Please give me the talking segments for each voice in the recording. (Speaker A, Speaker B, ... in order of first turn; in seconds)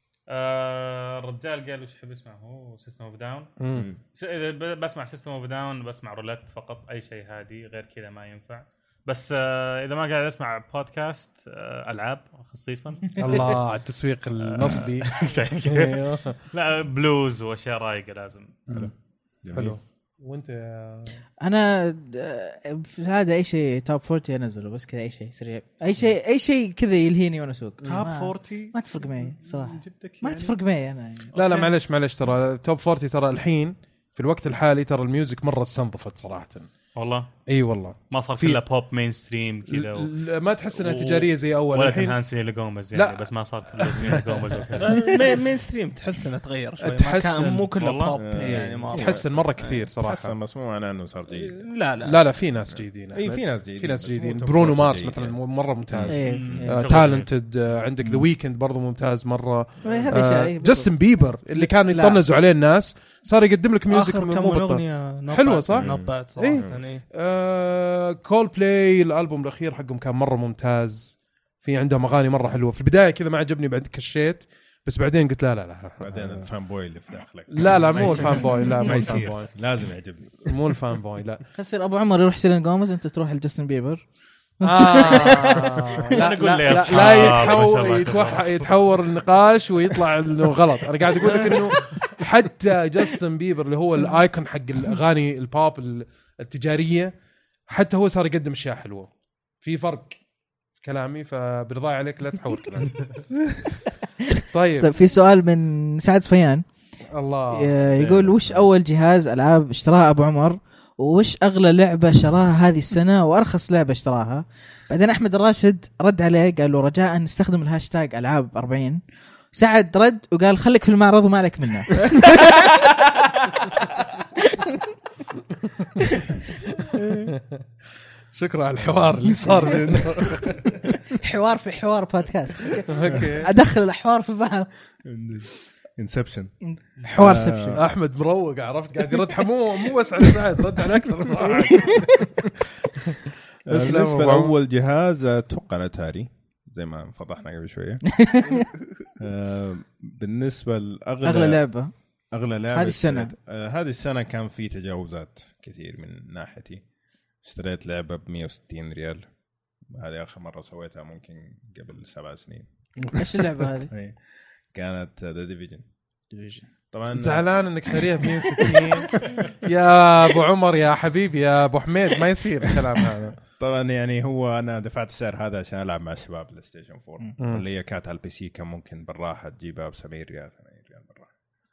Speaker A: 0.3-3.5, 4.0-13.6, 14.4-18.6, 28.0-30.5, 31.3-31.7, 37.0-37.3, 38.1-40.1, 40.7-45.1, 47.8-48.1, 56.6-57.3, 86.2-88.7
Speaker B: 3.6-3.9, 13.2-16.4, 19.5-21.2, 27.8-28.7, 31.3-36.7, 37.5-38.6, 39.7-42.2, 42.9-44.6, 46.8-50.3, 52.0-76.5, 77.5-79.6, 80.5-81.4, 84.6-97.1, 97.7-99.1, 99.6-100.2, 100.8-103.2, 104.5-104.9, 107.1-107.7, 127.3-127.6, 128.3-130.6, 132.9-133.5, 137.8-142.2, 143.1-144.5, 167.1-173.4
Speaker C: 18.7-19.8, 48.1-51.6, 52.7-56.7, 65.7-66.8, 76.0-80.8, 107.9-108.7, 128.8-130.8, 135.1-137.8, 141.3-142.0, 143.7-148.4, 149.2-156.9, 157.4-162.9, 163.9-165.9, 166.9-169.5, 173.6-181.3
Speaker D: 21.4-31.3, 56.1-57.0, 59.8-62.2, 78.5-78.9, 81.5-84.1, 84.6-86.0, 86.6-87.4, 104.8-106.7, 107.5-119.0, 119.5-124.9, 126.0-126.4, 131.1-134.9, 136.6-137.8, 141.4-142.2, 148.1-148.7, 151.2-153.3, 163.1-163.9, 166.3-166.7
Speaker E: 44.8-49.9, 51.3-52.4, 56.2-56.6, 63.9-67.0